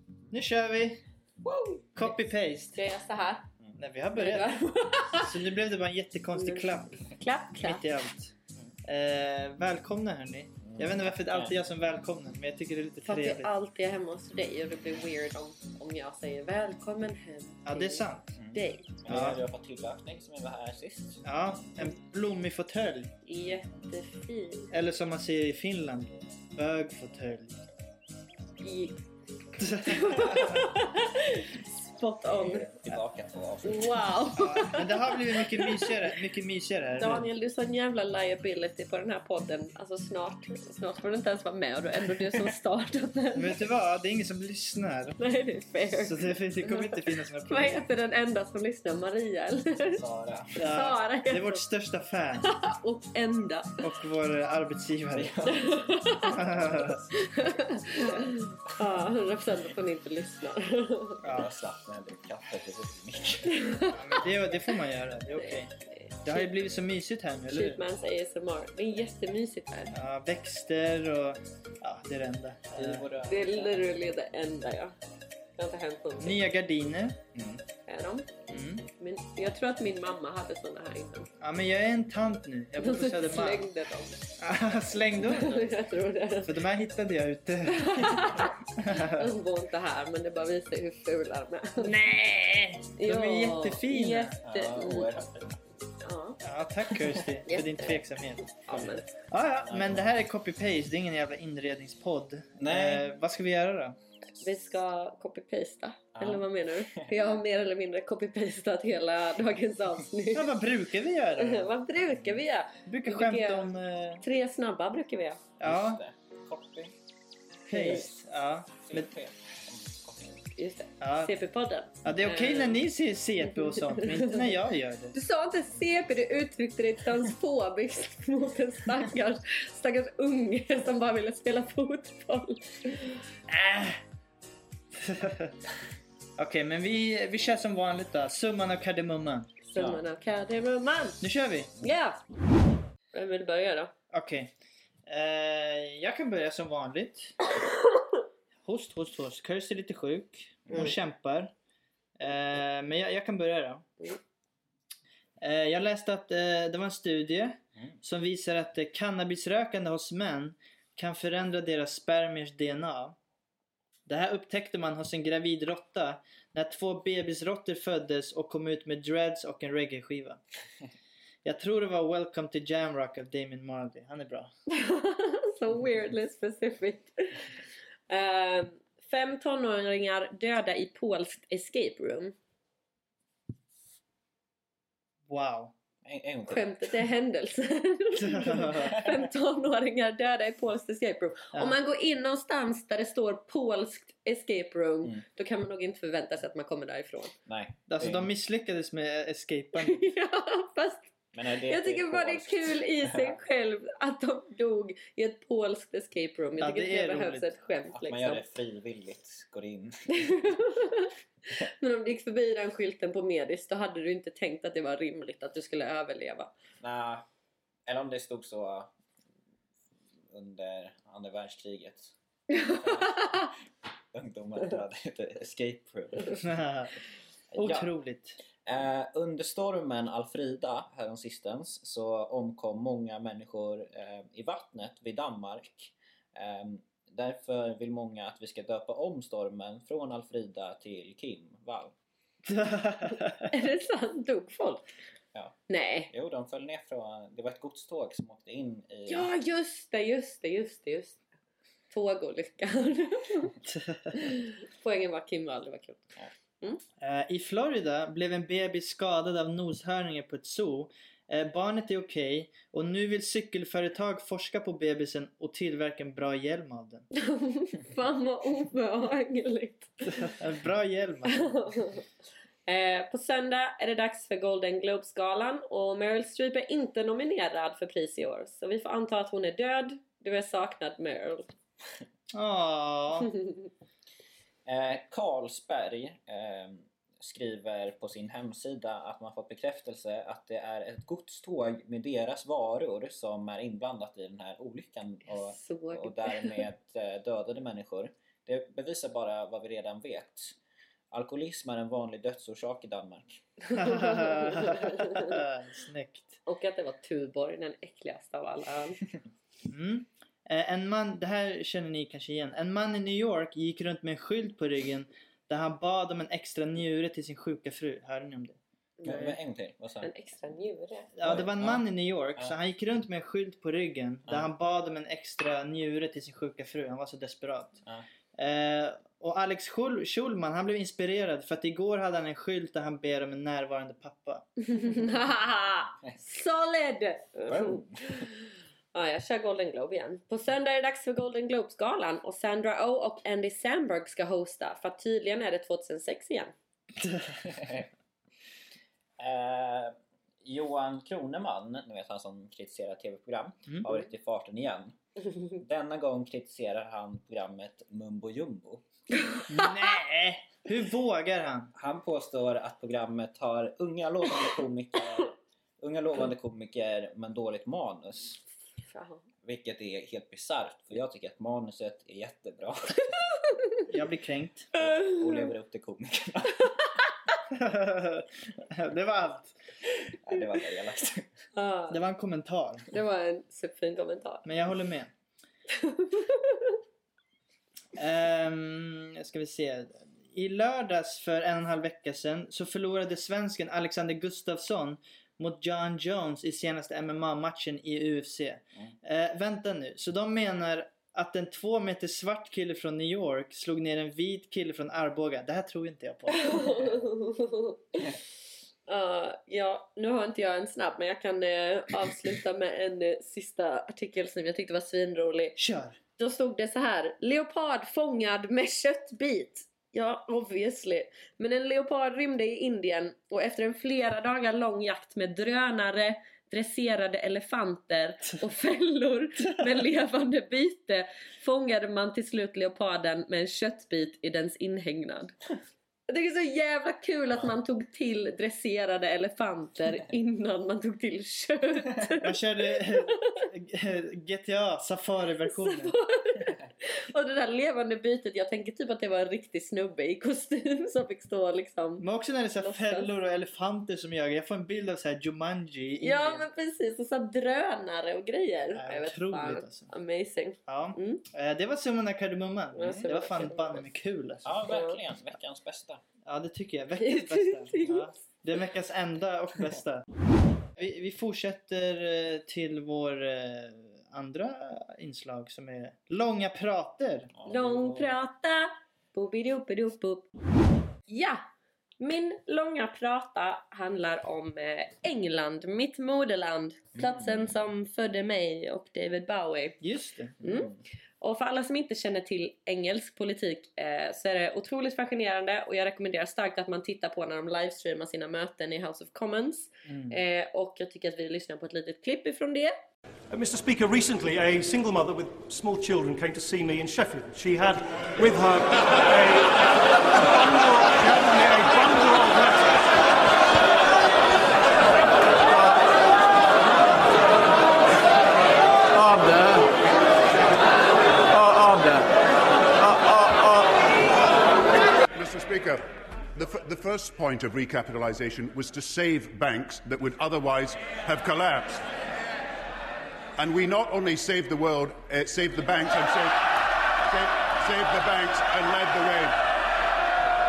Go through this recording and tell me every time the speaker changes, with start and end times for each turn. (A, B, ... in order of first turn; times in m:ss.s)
0:00.3-0:01.0 A
0:01.4-0:02.1 B
0:02.0-0:02.8 A
0:02.8-0:03.5 B
0:03.8-0:07.0 A
0:04.2-0:05.3 B
0:06.3-0:07.8 B
0:07.6-0:13.5 A
0:10.6-0:11.6 C
0:13.0-0:18.9 B
0:17.6-0:18.3 A
0:18.4-0:21.2 C
0:19.1-0:19.4 A
0:21.2-0:23.1 A
0:23.2-0:24.7 B
0:24.7-0:27.6 A
0:28.6-0:29.0 B
0:29.6-0:30.7 A
0:29.9-0:32.7 B
0:32.3-0:34.1 C
0:33.6-0:36.0 B
0:34.3-0:37.3 A
0:37.0-0:43.6 B
0:42.2-0:42.5 C
0:43.4-0:45.2 A
0:45.2-0:50.0 B
0:46.0-0:47.9 A
0:49.9-0:50.6 C
0:50.6-0:52.5 A
0:50.7-0:51.6 B
0:52.4-0:53.9 B
0:53.8-0:55.4 A
0:55.1-0:57.5 C
0:55.5-0:56.4 B
0:56.3-0:57.0 A
0:57.1-1:01.2 B
1:01.2-1:01.5 A
1:01.3-1:03.7 C
1:03.5-1:04.0 B
1:03.9-1:05.7 A
1:05.4-1:06.5 B
1:06.2-1:07.8 A
1:07.5-1:09.9 B
1:09.9-1:13.1 A
1:12.8-1:13.9 C
1:13.2-1:15.0 B
1:15.6-1:16.5 B
1:16.2-1:17.2 A
1:17.4-1:17.6 C
1:17.9-1:18.3 B
1:18.5-1:18.9 A
1:19.0-1:21.3 B
1:21.4-1:23.7 A
1:22.8-1:24.2 B
1:24.4-1:25.6 A
1:25.3-1:26.6 B
1:26.4-1:29.3 A
1:27.7-1:31.9 B
1:31.8-1:34.4 A
1:33.0-1:35.2 B
1:34.4-1:35.6 C
1:36.0-1:36.4 B
1:36.4-1:38.5 A
1:37.5-1:39.2 B
1:39.3-1:44.0 A
1:39.7-1:40.1 C
1:42.6-1:43.1 C
1:44.4-1:50.5 B
1:46.2-1:47.4 C
1:50.3-1:51.7 A
1:51.4-1:55.4 B
1:52.9-1:54.2 A
1:55.6-1:56.9 C
1:55.6-1:56.0 A
1:57.7-1:58.1 B
1:57.7-1:59.1 A
1:58.9-2:00.6 C
2:00.6-2:02.8 B
2:01.0-2:01.3 A
2:02.0-2:05.2 A
2:03.4-2:04.5 B
2:05.1-2:13.2 B
2:13.5-2:14.0 A
2:14.9-2:15.6 A
2:16.4-2:19.5 A
2:19.6-2:21.2 B
2:19.8-2:20.0 C
2:21.2-2:21.7 A
2:21.8-2:22.2 B
2:23.1-2:23.9 B
2:24.1-2:24.5 A
2:25.1-2:27.4 A
2:28.6-2:31.5 A
2:32.2-2:33.9 A
2:35.4-2:43.2 A
2:44.1-2:50.4 A
2:51.4-2:54.5 A
2:54.7-2:57.5 B
2:58.1-3:02.3 B
3:05.3-3:05.7 A
3:06.0-3:07.0 C
3:06.5-3:17.3 B
3:08.2-3:09.0 A
3:17.5-3:18.3 C
3:17.9-3:20.0 A
3:19.8-3:21.1 B
3:21.3-3:23.4 C
3:21.7-3:28.4 B
3:26.6-3:27.5 A
3:27.9-3:30.8 C
3:30.1-3:36.5 B
3:36.8-3:37.2 C
3:37.9-3:38.9 C
3:40.3-3:43.5 C
3:42.5-3:43.5 B
3:44.1-3:46.5 C
3:46.4-3:46.9 A
3:47.5-3:47.9 C
3:47.6-3:48.4 A
3:48.6-4:01.9 C
4:02.4-4:03.5 A
4:03.5-4:04.9 B
4:05.7-4:06.1 B
4:06.1-4:09.3 C
4:09.1-4:11.2 B
4:11.9-4:13.5 B
4:13.7-4:14.1 A
4:14.1-4:16.1 B
4:17.0-4:27.1 A
4:27.2-4:30.3 B
4:30.2-4:31.5 A
4:31.3-4:32.0 B
4:32.7-4:41.5 B
4:42.3-4:43.3 A
4:43.2-4:43.7 B
4:44.7-5:00.6 C
4:55.3-4:56.6 B
5:01.1-5:03.4 C
5:03.7-5:05.4 B
5:03.7-5:06.4 A
5:06.5-5:09.0 B
5:09.6-5:18.6 A
5:19.0-5:19.4 B
5:19.0-5:20.1 C
5:20.0-5:21.1 B
5:21.2-5:27.8 A
5:21.2-5:21.8 C
5:28.4-5:34.5 A
5:34.6-5:46.5 B
5:37.5-5:38.3 C
5:47.0-5:47.4 A
5:47.4-5:47.9 C
5:49.2-5:55.0 C
5:55.5-5:58.8 C
5:59.5-6:01.7 A
6:01.8-6:08.4 C
6:08.9-6:09.2 B
6:09.4-6:13.2 C
6:13.9-6:14.7 A
6:14.8-6:16.8 C
6:14.9-6:15.4 B
6:17.5-6:19.6 A
6:20.1-6:21.3 C
6:21.5-6:22.0 B
6:21.9-6:22.9 A
6:22.9-6:24.4 B
6:24.4-6:25.1 A
6:25.7-6:26.8 B
6:28.0-6:46.7 A
6:46.3-6:48.2 B
6:48.9-6:55.6 B
6:55.6-6:56.0 A
6:56.2-7:15.3 B
7:16.1-7:23.4 B
7:22.2-7:26.0 A
7:25.5-7:32.0 B
7:32.0-7:36.5 A
7:32.6-7:33.1 B
7:36.0-7:41.2 B
7:38.8-7:39.9 A
7:40.7-7:44.6 A
7:42.8-7:43.9 B
7:44.4-7:46.0 C
7:44.7-7:45.0 B
7:46.3-7:50.0 A
7:47.0-7:48.1 B
7:50.8-7:57.3 A
7:57.3-7:58.1 C
7:57.4-8:00.3 B
8:01.1-8:01.4 B
8:02.0-8:09.8 B
8:07.0-8:07.5 C
8:09.8-8:10.4 A
8:10.4-8:22.8 B
8:10.4-8:10.8 C
8:19.8-8:20.2 A
8:23.3-8:32.9 D
8:35.5-8:36.0 D
8:38.9-8:39.8 D
8:41.3-8:42.1 D
8:42.8-8:43.8 D
8:45.2-8:51.9 E
8:53.4-8:56.5 E
8:57.1-8:59.4 E